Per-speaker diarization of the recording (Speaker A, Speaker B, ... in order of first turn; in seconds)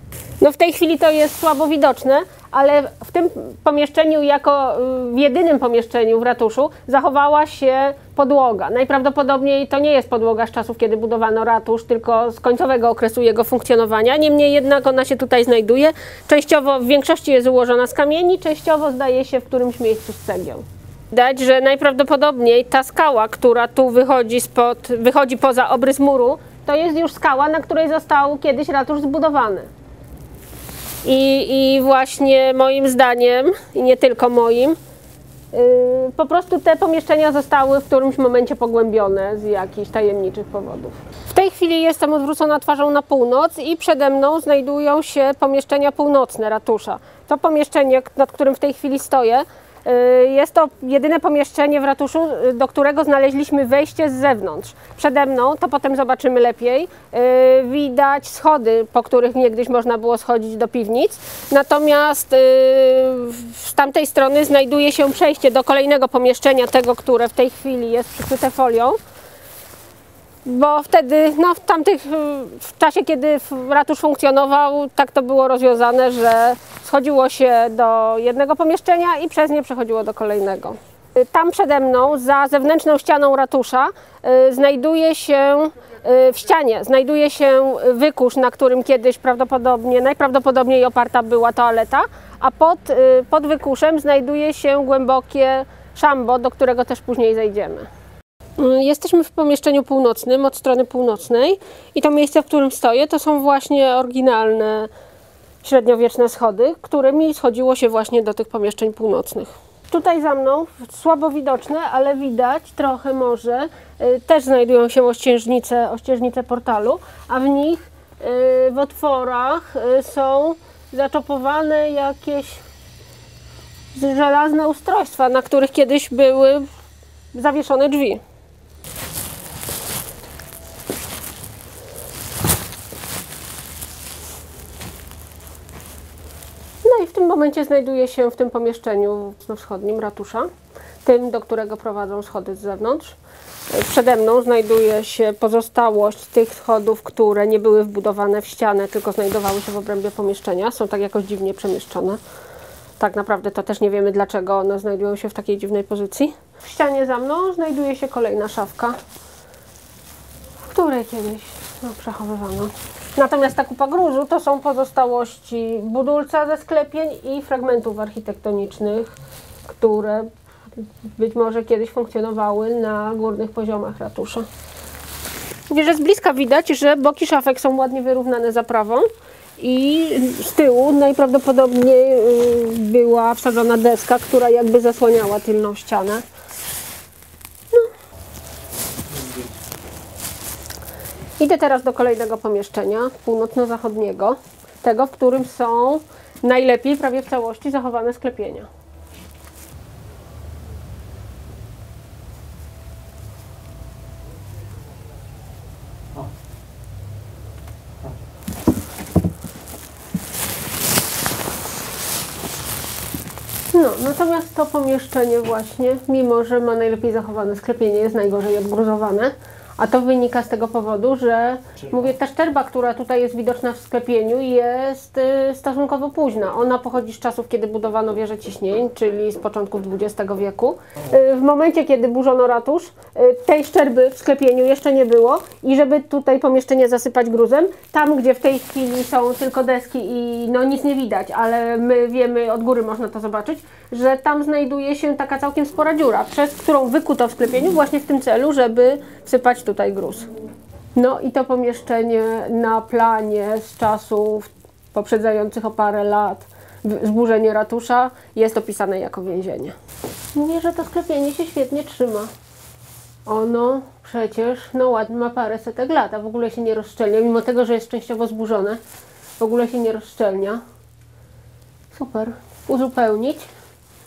Speaker A: 0.4-29.7, 31.0-34.8, 35.5-69.0, 70.4-97.9, 98.6-104.9, 105.6-122.6, 123.9-126.7, 127.3-128.2, 136.8-140.5, 141.0-143.2, 143.7-152.2, 153.0-159.0, 160.7-170.3, 171.0-174.5, 175.7-179.1, 179.6-186.2, 191.4-198.7, 213.7-250.3, 250.9-259.8, 260.3-262.3, 263.2-268.8, 269.4-270.6, 271.9-273.5